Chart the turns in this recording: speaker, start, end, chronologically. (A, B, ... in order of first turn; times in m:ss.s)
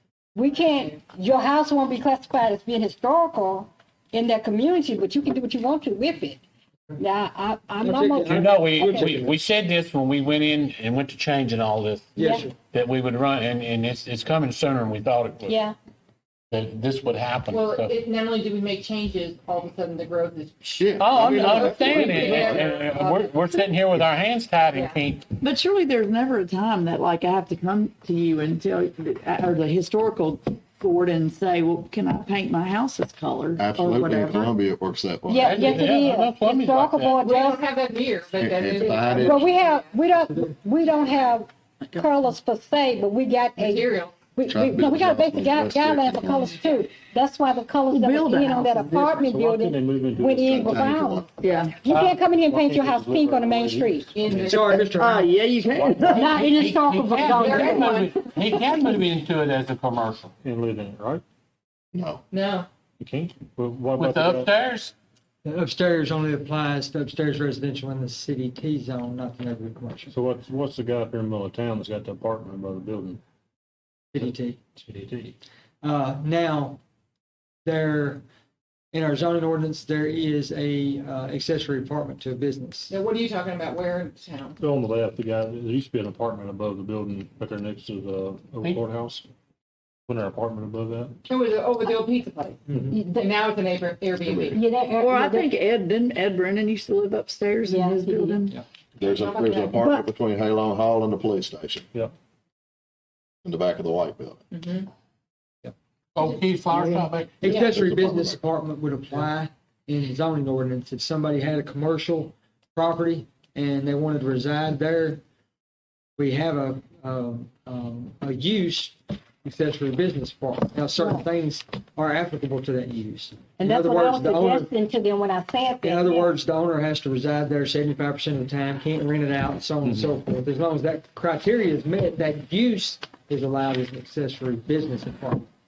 0:00.4-0:06.4 A
0:07.0-0:09.2 A
0:07.8-0:09.4 B
0:08.2-0:12.2 C
0:12.2-0:12.6 B
0:12.2-0:12.5 A
0:12.7-0:15.6 C
0:15.5-0:15.8 A
0:16.5-0:18.0 C
0:17.5-0:23.6 D
0:20.8-0:22.8 E
0:21.0-0:25.3 C
0:25.4-0:34.6 F
0:33.6-0:35.9 E
0:35.3-0:37.6 A
0:35.4-0:37.2 C
0:37.2-0:40.0 D
0:38.4-0:39.6 E
0:39.1-0:54.1 A
0:43.6-0:44.2 D
0:44.5-0:46.6 E
0:47.9-0:49.0 F
0:48.9-0:51.0 G
0:50.4-0:51.3 E
0:51.4-0:51.8 F
0:51.9-0:54.6 G
0:54.1-0:54.6 D
0:54.3-0:55.3 B
0:54.4-0:56.3 F
0:55.7-0:56.5 G
0:56.1-0:58.0 A
0:56.2-0:56.4 D
0:56.5-1:00.3 C
0:57.3-0:58.2 D
1:00.4-1:01.2 G
1:01.9-1:02.2 E
1:02.3-1:02.7 D
1:03.0-1:04.5 G
1:04.0-1:04.9 C
1:05.4-1:10.1 B
1:10.1-1:13.2 G
1:14.1-1:14.6 B
1:14.2-1:15.4 G
1:15.8-1:16.8 B
1:17.6-1:18.2 B
1:18.9-1:22.9 B
1:22.9-1:24.6 D
1:24.6-1:29.2 G
1:30.1-1:31.2 G
1:31.3-1:34.6 D
1:32.7-1:33.0 B
1:34.2-1:34.6 E
1:34.5-1:35.5 A
1:35.0-1:38.6 F
1:37.7-1:38.4 A
1:39.0-1:41.9 E
1:39.0-1:39.8 D
1:39.8-1:40.0 A
1:43.4-1:44.4 E
1:44.5-1:44.9 D
1:46.2-1:47.4 C
1:47.4-1:55.2 B
1:47.4-1:48.4 E
1:56.2-2:04.7 B
2:01.0-2:01.2 A
2:03.6-2:06.4 A
2:05.8-2:15.5 B
2:09.8-2:10.1 G